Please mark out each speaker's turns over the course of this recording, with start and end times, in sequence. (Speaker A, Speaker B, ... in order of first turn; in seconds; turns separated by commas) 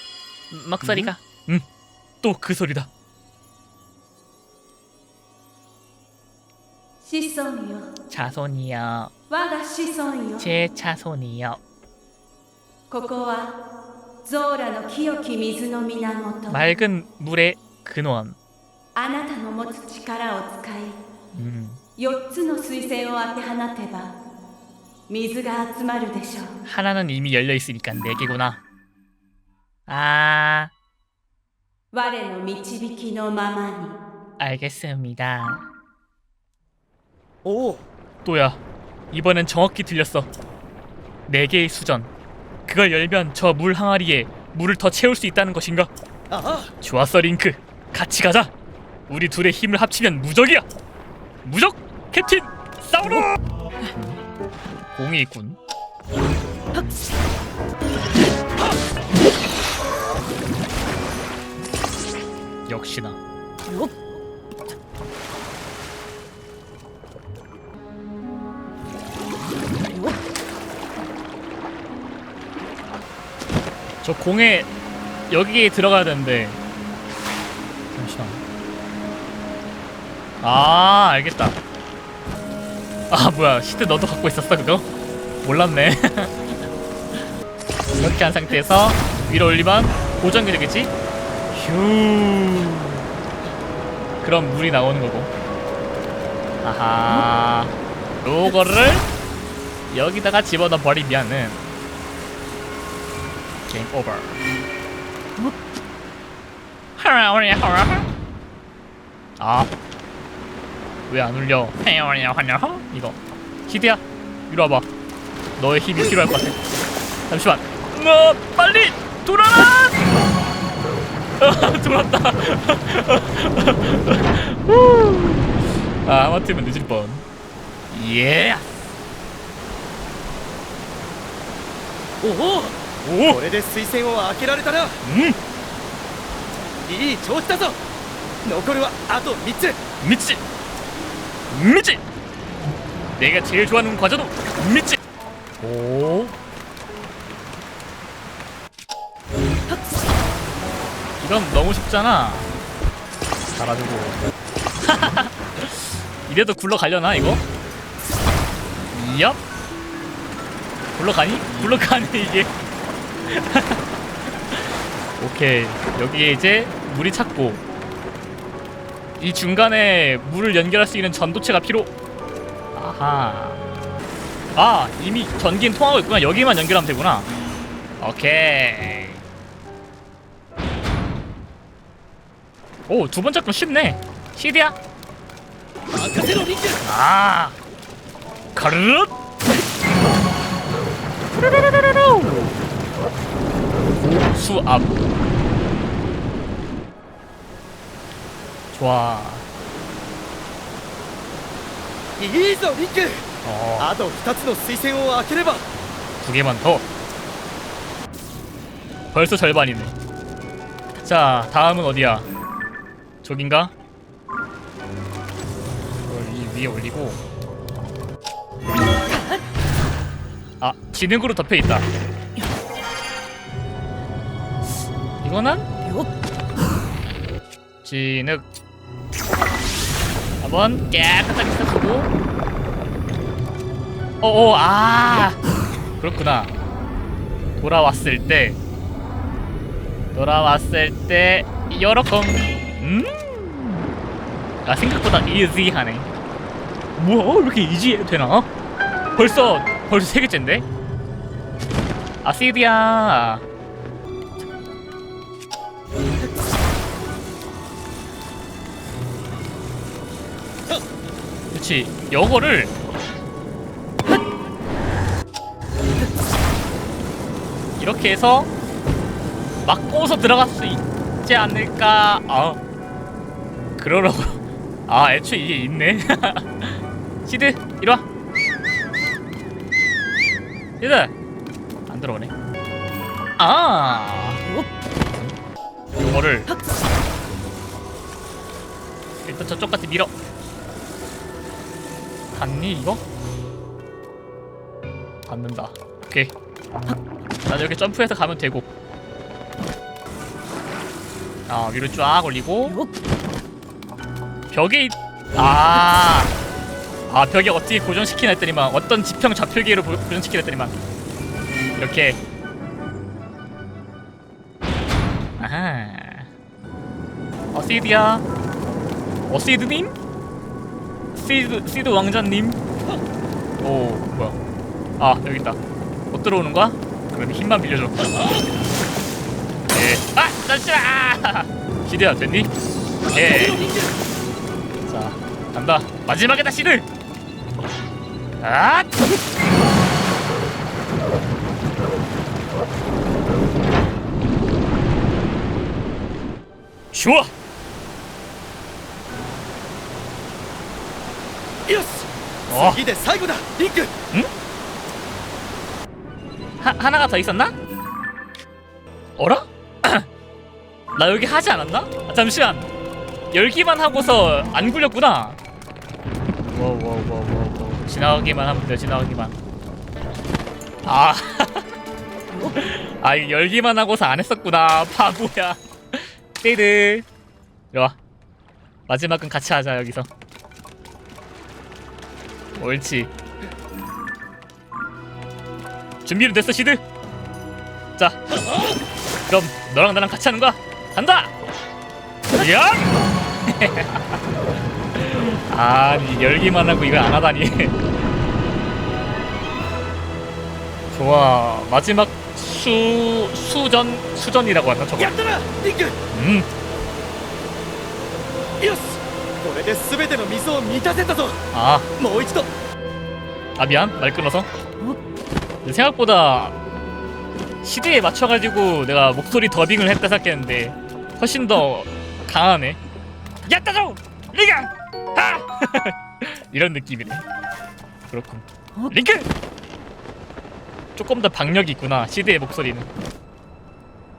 Speaker A: 0.5-1.7, Speaker B: 0.8-1.1, Speaker A: 2.2-2.9, Speaker C: 7.0-7.9, Speaker A: 8.1-9.1, Speaker C: 9.3-10.5, Speaker A: 10.4-11.6, Speaker C: 12.9-13.6, Speaker C: 14.2-16.7, Speaker A: 16.5-18.4, Speaker C: 18.9-21.0, Speaker A: 21.3-21.8, Speaker C: 22.0-24.2, Speaker C: 25.1-26.6, Speaker A: 26.6-28.6, Speaker A: 29.9-30.7, Speaker C: 31.9-34.0, Speaker A: 34.4-35.7, Speaker B: 37.5-37.9, Speaker A: 38.2-40.3, Speaker A: 41.3-42.1, Speaker A: 42.7-45.9, Speaker B: 46.3-46.7, Speaker A: 46.8-48.5, Speaker A: 49.1-50.7, Speaker A: 51.4-53.4, Speaker A: 53.9-54.2, Speaker A: 54.9-55.6, Speaker A: 62.7-63.2, Speaker A: 74.0-74.7, Speaker A: 75.3-76.6, Speaker A: 77.9-78.4, Speaker A: 80.4-81.6, Speaker A: 83.1-84.9, Speaker A: 85.4-86.6, Speaker A: 88.0-90.9, Speaker A: 91.5-93.0, Speaker A: 94.2-95.3, Speaker A: 96.6-99.1, Speaker A: 99.9-101.6, Speaker A: 103.7-104.4, Speaker A: 107.0-108.1, Speaker A: 109.4-109.7, Speaker A: 111.1-114.9, Speaker A: 115.6-116.6, Speaker A: 117.3-120.1, Speaker A: 121.4-127.2, Speaker A: 127.9-128.7, Speaker B: 132.2-135.0, Speaker A: 133.0-133.4, Speaker A: 135.0-135.4, Speaker B: 136.8-137.8, Speaker B: 138.4-139.8, Speaker A: 140.0-140.4, Speaker A: 141.5-142.0, Speaker A: 143.2-145.0, Speaker A: 145.6-146.3, Speaker A: 151.2-152.5, Speaker A: 153.5-154.2, Speaker A: 154.8-157.4, Speaker A: 158.9-159.4, Speaker A: 160.9-162.6, Speaker A: 163.2-163.8, Speaker A: 164.5-167.6, Speaker A: 169.2-171.9, Speaker A: 172.8-173.6, Speaker A: 174.6-177.3, Speaker A: 178.0-179.2, Speaker A: 182.9-184.8, Speaker B: 185.9-186.8, Speaker A: 186.8-187.6, Speaker A: 188.5-189.1, Speaker A: 191.4-192.6, Speaker A: 193.9-195.0, Speaker A: 198.7-199.5, Speaker B: 202.2-205.7, Speaker A: 203.4-203.9, Speaker A: 206.2-206.9, Speaker A: 209.1-209.9, Speaker A: 211.0-212.3, Speaker A: 213.2-213.7, Speaker A: 216.1-217.2, Speaker A: 220.6-221.9, Speaker A: 225.2-225.7, Speaker A: 227.8-228.5, Speaker A: 230.4-232.1, Speaker A: 234.2-235.4, Speaker A: 236.0-236.6, Speaker A: 237.6-238.6, Speaker A: 240.1-243.9, Speaker A: 244.6-246.1, Speaker A: 247.0-248.5, Speaker A: 249.2-250.7, Speaker A: 252.2-253.5, Speaker A: 261.5-262.7, Speaker A: 267.8-268.5, Speaker A: 269.6-272.6, Speaker A: 273.8-278.1, Speaker A: 280.8-281.1, Speaker A: 281.9-282.3, Speaker A: 283.4-284.4, Speaker A: 285.9-286.5, Speaker A: 289.2-290.1, Speaker A: 292.3-293.0, Speaker A: 295.3-296.3, Speaker A: 297.5-298.6, Speaker A: 301.5-302.8, Speaker A: 304.5-306.3, Speaker A: 307.1-310.8, Speaker A: 311.8-312.2, Speaker A: 315.4-316.3, Speaker A: 317.5-318.3, Speaker A: 319.3-319.9, Speaker A: 321.1-322.6, Speaker A: 323.6-324.4, Speaker A: 325.0-325.6, Speaker A: 326.1-328.0, Speaker A: 329.7-332.5, Speaker B: 333.1-334.0, Speaker A: 333.1-333.7, Speaker A: 334.8-336.9, Speaker A: 338.4-339.0, Speaker A: 346.9-347.3, Speaker B: 351.7-353.9, Speaker A: 352.5-352.8, Speaker A: 356.6-357.5, Speaker A: 359.2-360.1, Speaker A: 361.0-362.7, Speaker A: 363.3-365.4, Speaker A: 366.5-369.4, Speaker A: 370.8-371.6, Speaker A: 372.4-377.1, Speaker A: 377.7-378.0, Speaker A: 378.9-380.1, Speaker A: 382.6-383.1, Speaker A: 386.1-386.8, Speaker A: 389.3-391.3, Speaker A: 392.3-392.9, Speaker A: 393.4-394.2, Speaker A: 394.9-397.8, Speaker A: 400.9-405.2, Speaker B: 405.0-406.0, Speaker A: 406.1-406.5, Speaker B: 408.6-411.4, Speaker A: 411.5-411.9, Speaker B: 412.0-412.5, Speaker A: 413.6-414.5, Speaker A: 415.6-416.6, Speaker A: 417.6-422.8, Speaker A: 423.4-427.2, Speaker A: 428.1-429.3, Speaker A: 431.0-432.9